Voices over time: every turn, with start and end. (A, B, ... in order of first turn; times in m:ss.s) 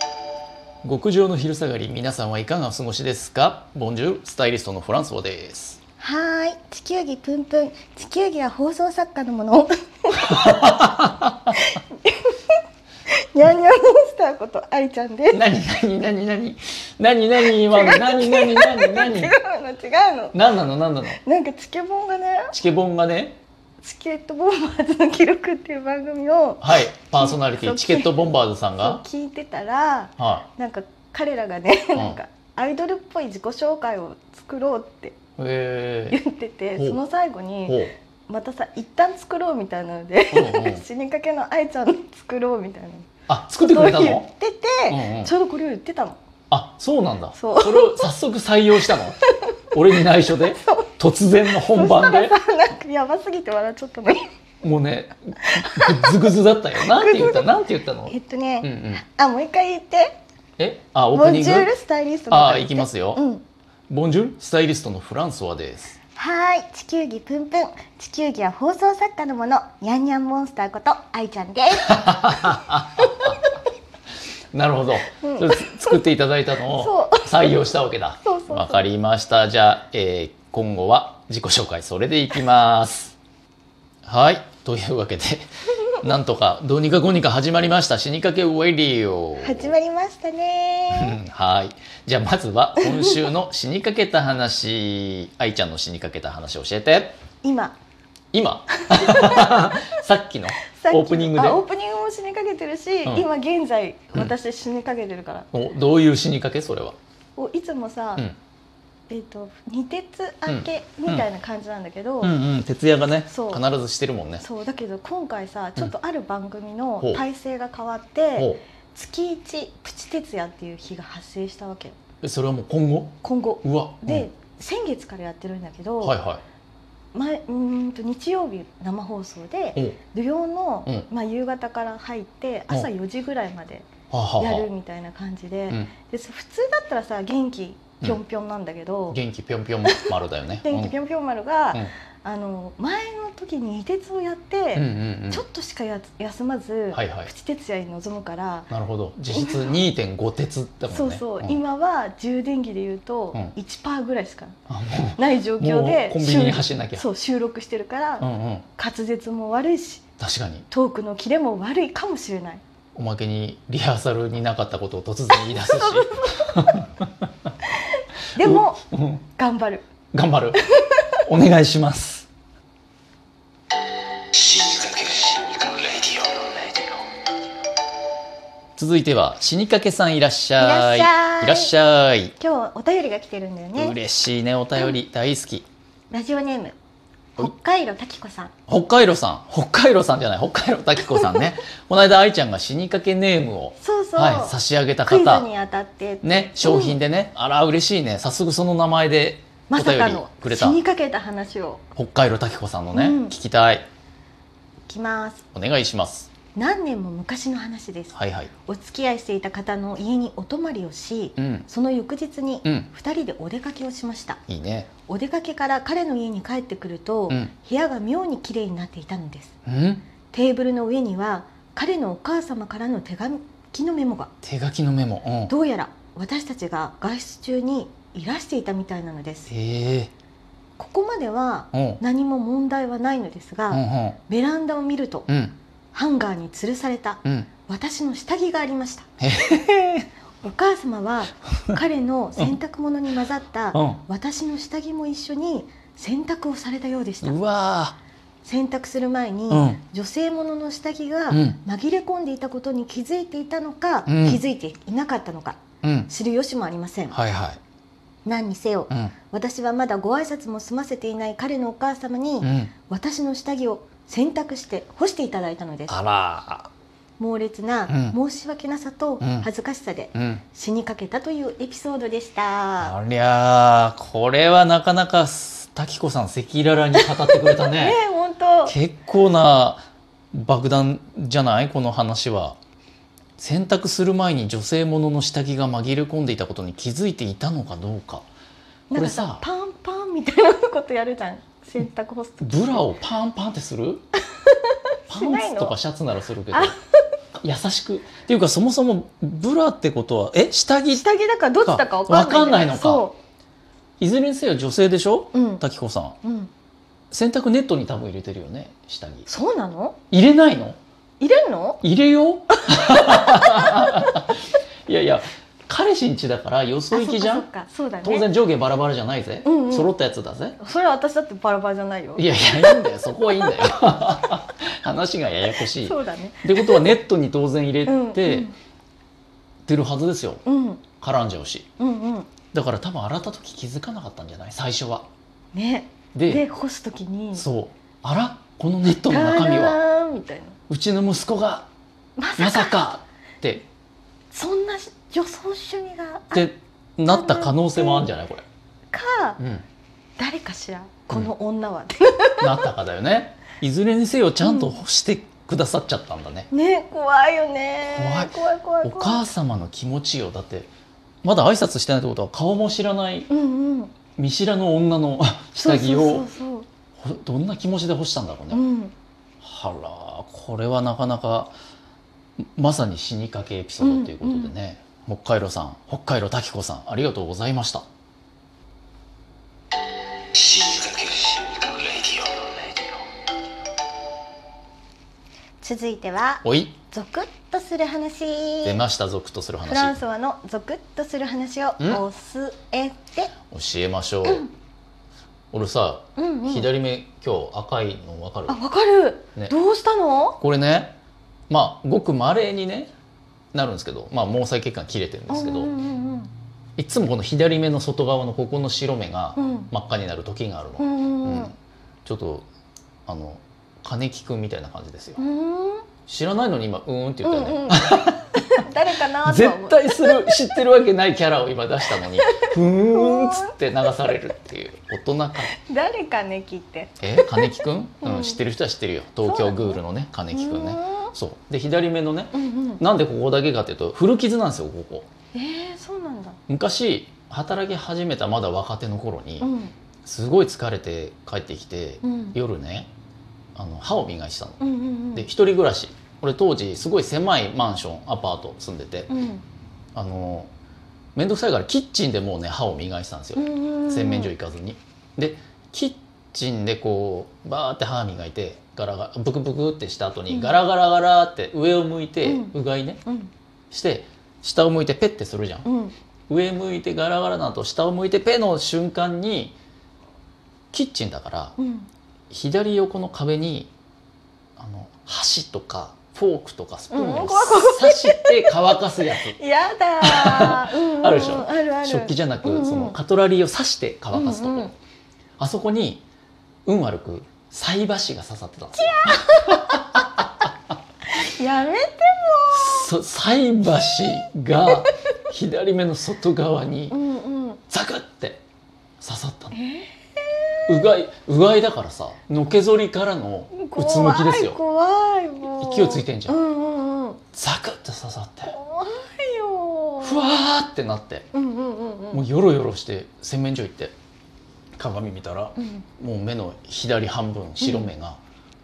0:00.8-0:05.8 A
0:06.0-0:10.9 B
0:10.2-0:11.5 A
0:11.5-0:12.5 B
0:13.1-0:15.4 B
0:15.3-0:19.3 A
0:17.4-0:20.4 B
0:20.3-0:21.2 A
0:21.2-0:22.5 B
0:22.5-0:23.4 A
0:23.8-0:28.2 B
0:26.6-0:29.0 A
0:28.8-0:35.2 B
0:30.2-0:30.5 A
0:31.9-0:32.2 A
0:35.4-0:36.2 A
0:36.1-0:46.2 B
0:37.7-0:37.9 A
0:40.3-0:40.8 A
0:43.3-0:44.3 A
0:44.9-0:45.3 A
0:46.5-0:49.2 A
0:47.3-0:48.0 B
0:49.7-0:52.4 A
0:50.6-0:50.9 B
0:51.5-0:54.3 B
0:54.6-0:59.0 A
0:55.4-0:56.2 B
0:56.8-1:00.1 B
1:00.6-1:01.7 A
1:01.1-1:03.4 B
1:02.3-1:03.2 A
1:03.9-1:06.0 A
1:06.2-1:12.4 B
1:11.7-1:13.4 A
1:13.0-1:13.5 B
1:14.5-1:23.1 A
1:15.2-1:16.0 B
1:16.6-1:17.5 B
1:18.2-1:18.8 B
1:24.0-1:29.7 A
1:29.4-1:31.2 B
1:30.9-1:37.2 A
1:32.8-1:33.1 B
1:37.4-1:37.8 B
1:38.3-1:41.6 A
1:38.9-1:39.7 B
1:40.7-1:45.5 B
1:45.5-1:47.0 A
1:47.4-1:48.2 B
1:49.1-1:52.3 B
1:50.5-1:51.2 A
1:52.2-1:54.4 A
1:53.3-1:53.6 B
1:54.4-2:02.0 B
1:58.4-1:58.6 A
2:02.2-2:04.3 A
2:03.2-2:06.2 B
2:06.0-2:06.4 A
2:07.1-2:19.2 B
2:14.1-2:14.7 A
2:19.1-2:20.9 A
2:19.8-2:20.1 B
2:20.6-2:28.7 B
2:24.7-2:25.4 A
2:26.9-2:27.3 A
2:28.7-2:31.6 A
2:29.3-2:29.7 B
2:30.9-2:34.6 B
2:34.7-2:37.1 A
2:35.2-2:40.0 B
2:38.2-2:38.7 A
2:40.2-2:40.7 A
2:40.7-2:42.6 B
2:43.0-2:47.5 A
2:45.5-2:46.5 B
2:48.3-2:48.8 B
2:48.4-2:49.2 A
2:49.4-2:49.8 B
2:50.1-2:50.6 A
2:50.7-2:51.1 B
2:51.2-2:52.3 A
2:54.4-2:56.4 C
2:58.8-3:02.3 A
3:00.6-3:01.7 B
3:02.4-3:04.0 B
3:03.8-3:05.6 A
3:06.1-3:06.7 B
3:07.4-3:08.5 B
3:08.7-3:15.5 A
3:13.8-3:17.0 B
3:16.2-3:20.8 A
3:19.7-3:21.8 B
3:22.0-3:23.8 A
3:22.9-3:23.3 B
3:24.9-3:25.4 B
3:25.5-3:26.3 A
3:26.5-3:34.4 B
3:28.1-3:28.5 A
3:31.4-3:31.6 A
3:34.5-3:34.9 A
3:35.1-3:39.5 B
3:39.6-3:40.0 A
3:40.3-3:44.3 B
3:44.4-3:45.5 A
3:45.5-3:49.5 B
3:49.5-3:50.1 A
3:50.8-3:55.3 B
3:51.7-3:52.0 A
3:53.7-3:54.2 A
3:55.3-3:55.6 A
3:55.9-3:59.1 B
3:57.2-3:57.5 A
3:59.2-4:00.1 A
4:00.4-4:07.4 B
4:03.7-4:04.0 A
4:07.2-4:08.0 A
4:08.4-4:17.2 B
4:09.5-4:09.8 A
4:11.3-4:11.6 A
4:14.1-4:14.4 A
4:15.8-4:16.1 A
4:17.1-4:17.6 A
4:18.2-4:26.0 B
4:18.9-4:19.1 A
4:22.4-4:22.7 A
4:25.9-4:26.7 A
4:27.2-4:33.0 B
4:27.9-4:28.2 A
4:29.2-4:29.5 A
4:30.1-4:30.4 A
4:32.8-4:38.0 A
4:37.0-4:38.7 B
4:38.7-4:42.6 A
4:43.4-4:48.3 A
4:48.9-4:52.6 B
4:48.9-4:49.4 A
4:52.4-4:54.0 A
4:54.4-4:55.7 B
4:55.1-4:56.7 A
4:56.5-4:56.8 B
4:57.4-5:01.0 A
5:00.9-5:03.2 B
5:01.6-5:03.0 A
5:04.0-5:06.2 A
5:05.3-5:05.6 B
5:06.2-5:06.5 B
5:07.1-5:09.3 A
5:09.3-5:10.0 B
5:10.1-5:10.8 A
5:11.2-5:11.8 B
5:11.8-5:17.4 A
5:12.6-5:13.3 B
5:16.9-5:18.3 B
5:18.0-5:20.6 A
5:19.4-5:19.9 B
5:20.6-5:22.9 B
5:22.2-5:28.5 A
5:25.8-5:26.9 B
5:27.8-5:28.5 B
5:29.6-5:30.4 A
5:30.4-5:30.8 B
5:31.0-5:31.6 A
5:31.8-5:32.3 B
5:32.5-5:35.1 A
5:35.5-5:37.4 B
5:36.1-5:36.4 A
5:37.3-5:39.8 A
5:39.1-5:40.6 B
5:40.7-5:41.7 A
5:42.2-5:42.8 B
5:42.4-5:43.7 A
5:44.3-5:46.5 B
5:46.3-5:48.4 A
5:47.1-5:48.0 B
5:48.9-5:49.4 B
5:49.4-5:49.6 A
5:50.2-5:52.6 B
5:52.4-5:56.5 A
5:54.4-5:54.8 B
5:56.5-5:59.2 B
5:57.9-6:00.7 A
6:01.2-6:03.3 A
6:03.3-6:03.9 B
6:04.2-6:06.3 A
6:05.6-6:06.7 B
6:07.0-6:08.6 A
6:08.5-6:08.9 B
6:09.4-6:11.5 A
6:12.4-6:17.8 A
6:13.8-6:14.5 B
6:20.4-6:22.2 C
6:25.6-6:28.8 B
6:26.4-6:26.8 A
6:28.6-6:30.0 A
6:29.6-6:33.3 B
6:33.5-6:34.4 A
6:34.2-6:34.5 B
6:35.5-6:38.6 A
6:36.2-6:36.7 B
6:38.5-6:40.4 B
6:40.4-6:41.0 A
6:41.5-6:42.9 A
6:43.5-6:45.7 A
6:45.3-6:46.3 B
6:46.8-6:51.5 A
6:49.4-6:49.7 B
6:50.8-6:51.5 B
6:52.0-6:52.5 A
6:53.0-6:55.2 A
6:55.2-6:55.9 B
6:56.1-6:58.2 A
6:57.2-7:00.1 B
6:59.2-7:05.5 A
7:02.0-7:03.5 B
7:05.5-7:08.4 B
7:07.0-7:15.1 A
7:09.2-7:11.1 B
7:12.3-7:12.8 B
7:15.3-7:16.4 B
7:16.5-7:19.5 A
7:19.4-7:19.7 B
7:20.0-7:22.9 A
7:22.0-7:22.4 B
7:23.6-7:24.6 A
7:24.6-7:25.3 B
7:25.1-7:29.1 A
7:29.1-7:29.4 B
7:29.9-7:30.5 A
7:31.1-7:43.0 A
7:33.4-7:34.3 B
7:40.3-7:40.6 B
7:42.2-7:43.3 B
7:43.7-7:45.7 A
7:45.6-7:45.9 B
7:46.3-7:49.6 A
7:50.7-7:51.6 A
7:51.6-7:51.9 B
7:52.3-7:53.7 A
7:54.6-7:59.4 A
7:56.9-7:58.5 B
7:59.1-8:03.0 B
8:00.0-8:04.7 A
8:04.1-8:04.7 B
8:05.4-8:06.0 A
8:06.6-8:10.4 A
8:08.8-8:10.0 B
8:11.1-8:12.9 B
8:12.5-8:17.0 A
8:16.9-8:17.6 B
8:17.7-8:18.4 A
8:19.0-8:19.6 A
8:19.5-8:20.8 B
8:20.7-8:24.6 A
8:23.5-8:27.2 B
8:25.6-8:26.4 A
8:27.3-8:28.6 A
8:28.5-8:30.2 B
8:30.0-8:31.2 A
8:31.3-8:32.2 B
8:32.1-8:33.9 A
8:34.8-8:38.2 A
8:35.6-8:35.8 B
8:37.6-8:37.9 B